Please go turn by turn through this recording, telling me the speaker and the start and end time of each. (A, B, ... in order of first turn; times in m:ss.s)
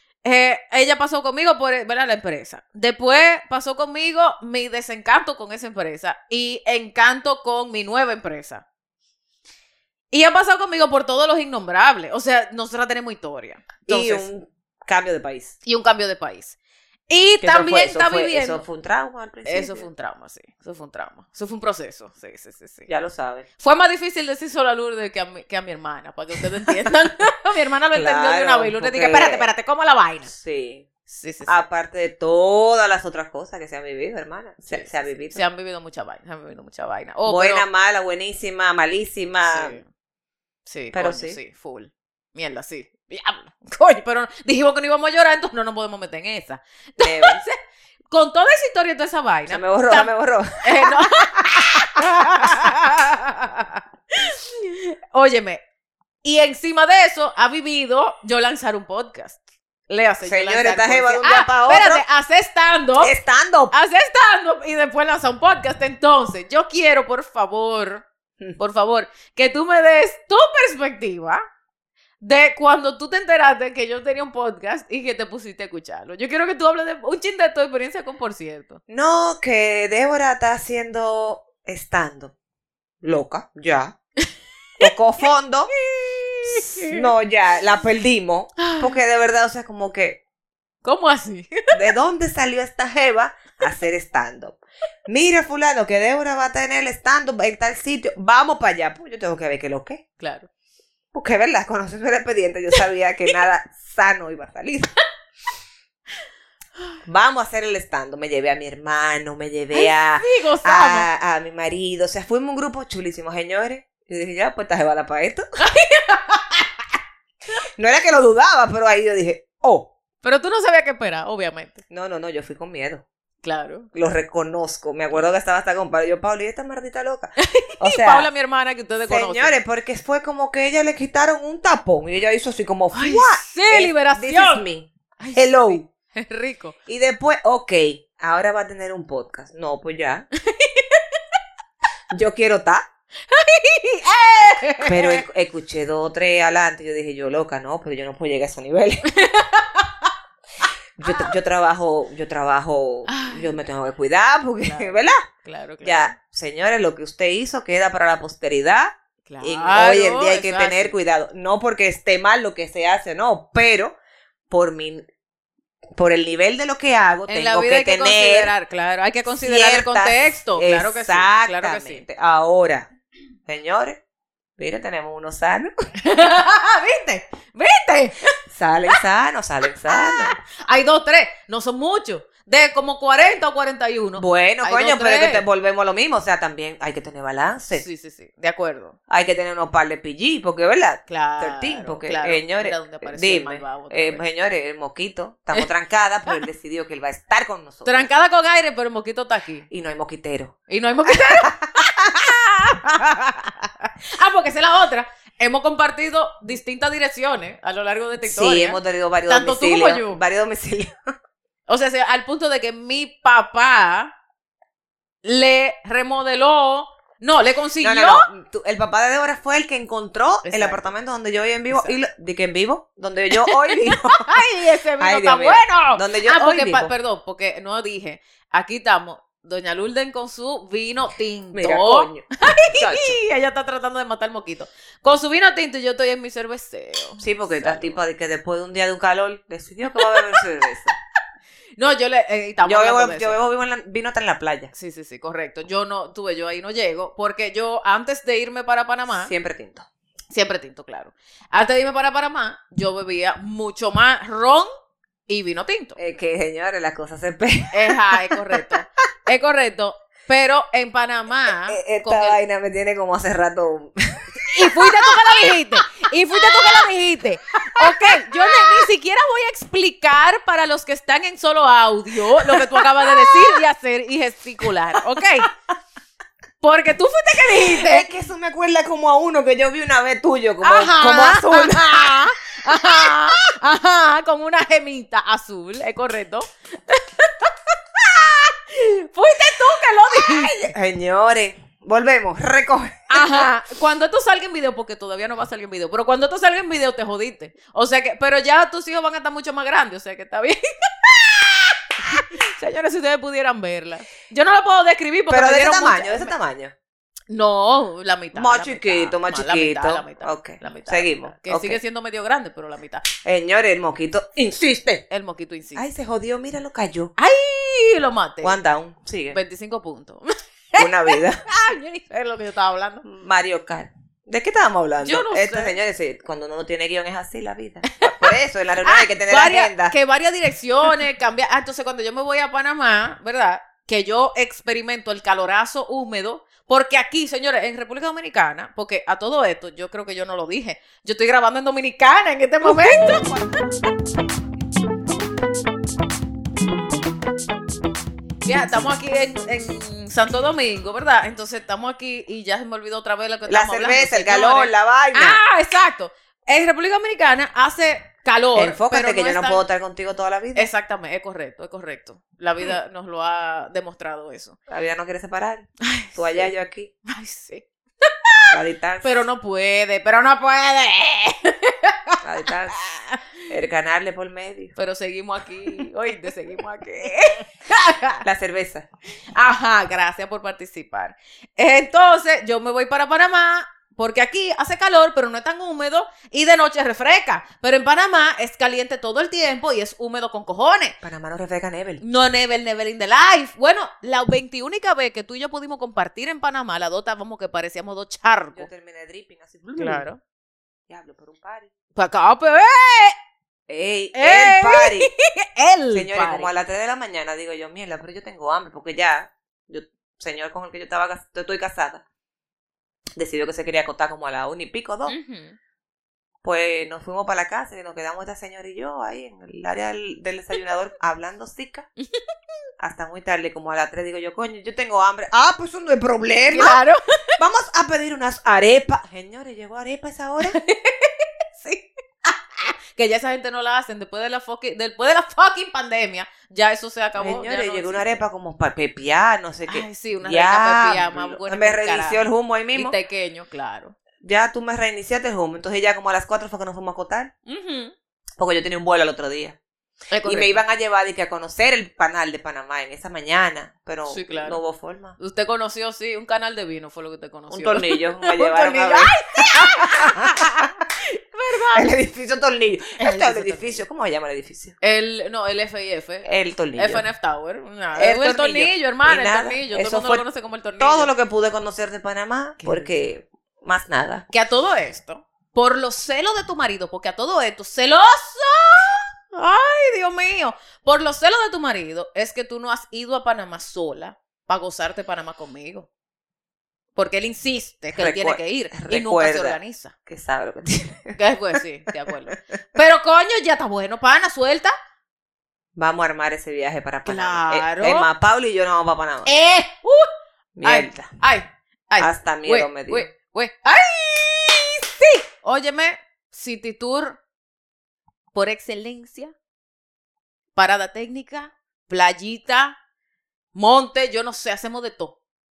0:00.2-0:08.6 A
0:10.1-0:14.3 A
0:13.9-0:15.6 B
0:15.6-0:16.6 A
0:17.1-0:18.6 A
0:17.4-0:19.9 B
0:19.4-0:22.9 A
0:22.9-0:23.5 B
0:23.6-0:30.3 A
0:27.9-0:29.5 B
0:30.3-0:30.9 B
0:31.1-0:31.6 A
0:31.5-0:35.4 B
0:34.7-0:37.6 A
0:37.3-0:39.8 B
0:39.5-0:39.9 A
0:40.7-0:47.6 A
0:40.9-0:41.4 B
0:47.0-0:47.4 B
0:48.1-0:50.1 A
0:49.5-0:52.7 B
0:50.6-0:55.6 A
0:56.2-1:03.1 A
1:00.2-1:02.0 B
1:03.0-1:03.7 B
1:03.7-1:08.1 A
1:08.6-1:11.4 A
1:12.2-1:18.8 A
1:18.9-1:22.3 B
1:23.0-1:24.0 B
1:24.8-1:25.7 B
1:25.8-1:27.0 A
1:26.8-1:30.2 B
1:28.6-1:29.0 A
1:30.8-1:31.8 A
1:31.7-1:40.0 B
1:40.2-1:40.5 A
1:41.1-1:44.9 B
1:47.0-1:55.4 B
1:49.7-1:51.1 A
1:55.6-1:56.8 A
1:57.8-1:59.9 B
2:00.2-2:01.8 A
2:01.9-2:03.0 B
2:03.4-2:03.9 A
2:03.9-2:08.3 B
2:07.4-2:09.6 A
2:09.1-2:15.8 B
2:12.9-2:14.6 A
2:15.2-2:16.8 A
2:16.9-2:20.3 B
2:20.4-2:21.0 A
2:22.1-2:22.9 B
2:23.3-2:25.2 A
2:24.8-2:29.1 B
2:29.1-2:30.1 A
2:31.0-2:35.2 B
2:31.1-2:31.3 A
2:33.1-2:33.6 A
2:34.6-2:36.2 A
2:35.8-2:44.0 B
2:39.3-2:40.9 A
2:44.5-2:45.1 B
2:46.0-2:48.5 B
2:47.3-2:52.0 A
2:49.3-2:52.9 B
2:53.5-2:54.0 B
2:54.6-2:55.7 B
2:56.0-2:58.4 A
2:58.5-3:00.4 B
2:59.9-3:05.4 A
3:04.2-3:07.8 B
3:07.7-3:09.0 A
3:09.1-3:18.1 B
3:11.1-3:14.2 A
3:17.9-3:19.7 A
3:19.7-3:20.6 B
3:20.7-3:30.2 A
3:21.1-3:21.7 B
3:28.2-3:31.0 B
3:31.7-3:34.1 A
3:35.2-3:38.3 A
3:37.8-3:44.4 B
3:40.4-3:40.9 A
3:43.4-3:58.0 A
3:45.0-3:46.9 B
3:51.5-3:53.2 B
3:57.2-4:01.0 B
4:00.0-4:00.4 A
4:01.8-4:03.4 A
4:02.6-4:04.7 B
4:04.7-4:09.3 A
4:09.2-4:09.9 B
4:10.3-4:14.7 A
4:15.3-4:16.0 A
4:16.0-4:18.6 B
4:17.7-4:22.4 A
4:21.7-4:25.6 B
4:24.4-4:35.5 A
4:26.3-4:26.9 B
4:27.8-4:28.9 B
4:32.4-4:33.6 B
4:34.9-4:35.2 B
4:36.6-4:38.1 A
4:37.6-4:42.2 B
4:40.6-4:50.7 A
4:50.2-4:53.5 B
4:53.1-5:06.3 A
5:05.3-5:06.7 B
5:07.3-5:13.0 A
5:08.3-5:11.8 B
5:13.2-5:15.0 B
5:15.1-5:15.8 A
5:15.8-5:17.1 B
5:17.2-5:18.6 A
5:18.4-5:19.4 B
5:19.3-5:23.0 A
5:20.8-5:21.4 B
5:23.0-5:29.9 B
5:25.0-5:25.8 A
5:27.9-5:28.3 A
5:28.8-5:43.3 A
5:42.6-5:43.6 B
5:48.4-5:59.6 A
5:53.5-5:55.4 B
5:58.6-6:00.7 B
6:00.6-6:04.6 A
6:04.7-6:06.9 B
6:05.8-6:06.5 A
6:07.1-6:12.2 A
6:08.5-6:09.1 B
6:12.2-6:12.8 B
6:12.7-6:13.2 A
6:13.5-6:14.7 B
6:14.8-6:18.2 A
6:18.2-6:18.9 B
6:19.4-6:31.0 A
6:31.0-6:32.0 B
6:32.0-6:38.7 A
6:38.6-6:40.1 B
6:39.8-6:40.2 A
6:40.9-6:41.7 B
6:42.0-6:43.2 A
6:43.7-6:45.1 B
6:44.1-6:46.5 A
6:45.9-6:52.0 B
6:53.2-6:55.2 B
6:55.1-6:55.6 A
6:56.4-7:01.9 B
7:02.8-7:06.8 B
7:06.5-7:07.0 A
7:07.4-7:10.6 B
7:10.4-7:18.2 A
7:17.2-7:22.9 B
7:19.7-7:24.0 A
7:24.2-7:27.3 B
7:27.5-7:27.9 A
7:28.4-7:29.6 B
7:30.1-7:30.6 A
7:30.2-7:35.2 B
7:34.1-7:34.6 A
7:35.2-7:41.9 A
7:37.5-7:40.6 B
7:41.7-7:44.8 B
7:43.0-7:43.8 A
7:44.8-7:51.1 A
7:46.2-7:47.0 B
7:48.0-7:50.2 B
7:50.8-7:54.2 B
7:52.6-7:52.9 A
7:54.3-8:05.9 A
8:07.0-8:09.9 A
8:08.0-8:11.2 B
8:11.2-8:14.7 A
8:15.8-8:19.3 B
8:17.1-8:18.1 A
8:19.2-8:20.1 A
8:20.6-8:21.1 B
8:20.6-8:27.2 A
8:22.0-8:23.1 B
8:28.3-8:29.3 A
8:30.6-8:32.8 A
8:33.6-8:35.2 A